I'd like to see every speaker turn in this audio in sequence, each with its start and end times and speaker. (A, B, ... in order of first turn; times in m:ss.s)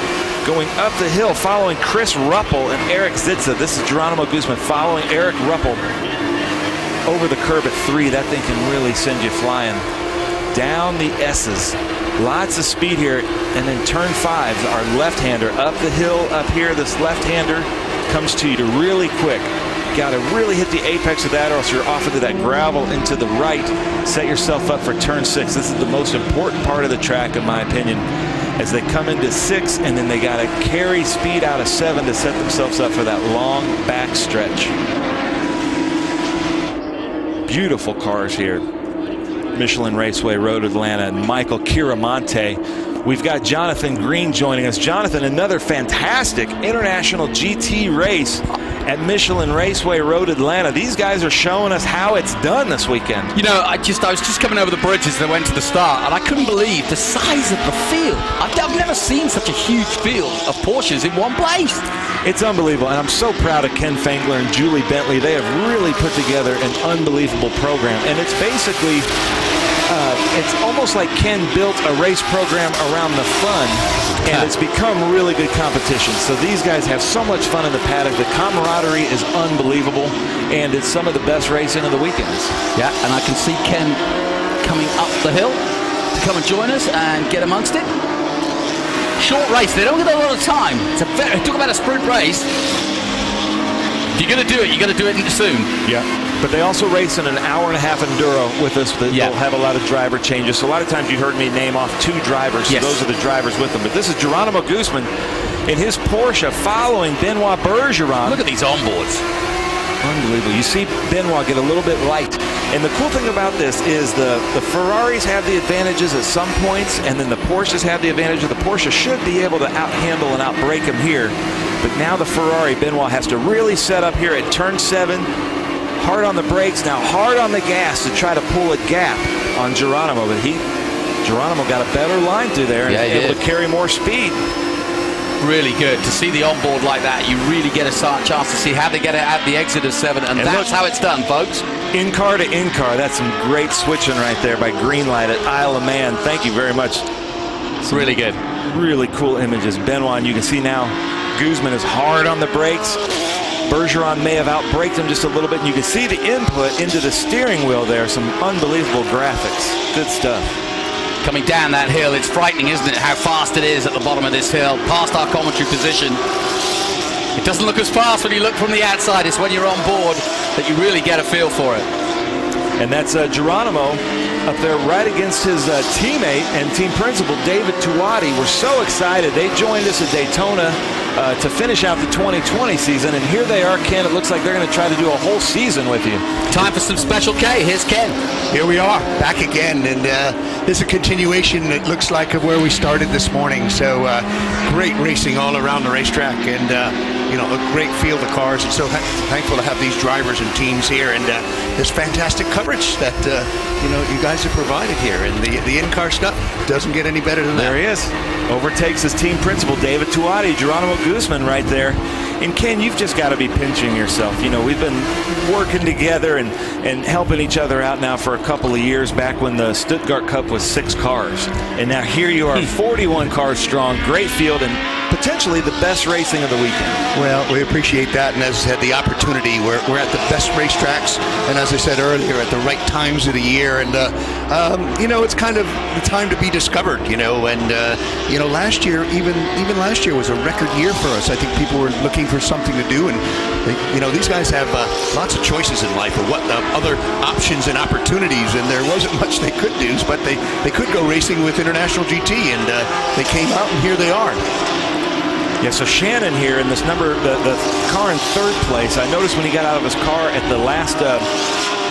0:00.4-0:05.8 A
0:07.1-0:09.9 A
0:10.5-0:28.1 A
0:28.6-0:34.7 A
0:37.5-0:38.6 A
0:39.5-0:53.3 A
0:53.4-1:01.9 B
1:02.2-1:09.1 A
1:09.9-1:22.6 A
1:22.8-1:24.0 B
1:24.6-1:25.6 B
1:26.1-1:27.9 B
1:29.2-1:32.5 B
1:34.2-1:35.7 B
1:35.8-1:45.1 A
1:42.7-1:43.0 B
1:45.7-1:48.4 A
1:48.2-1:49.2 B
1:50.0-2:05.3 A
2:06.0-2:10.6 A
2:11.2-2:14.4 A
2:12.9-2:13.4 B
2:15.4-2:21.6 B
2:20.4-2:20.7 A
2:21.9-2:27.1 A
2:27.9-2:28.4 B
2:28.6-2:33.0 A
2:33.6-2:40.6 A
2:41.2-2:46.2 B
2:47.4-2:51.9 B
2:52.8-3:06.3 A
3:06.5-3:08.2 B
3:08.5-3:27.8 C
3:27.6-3:47.0 A
3:47.1-4:14.4 C
4:15.6-4:21.3 A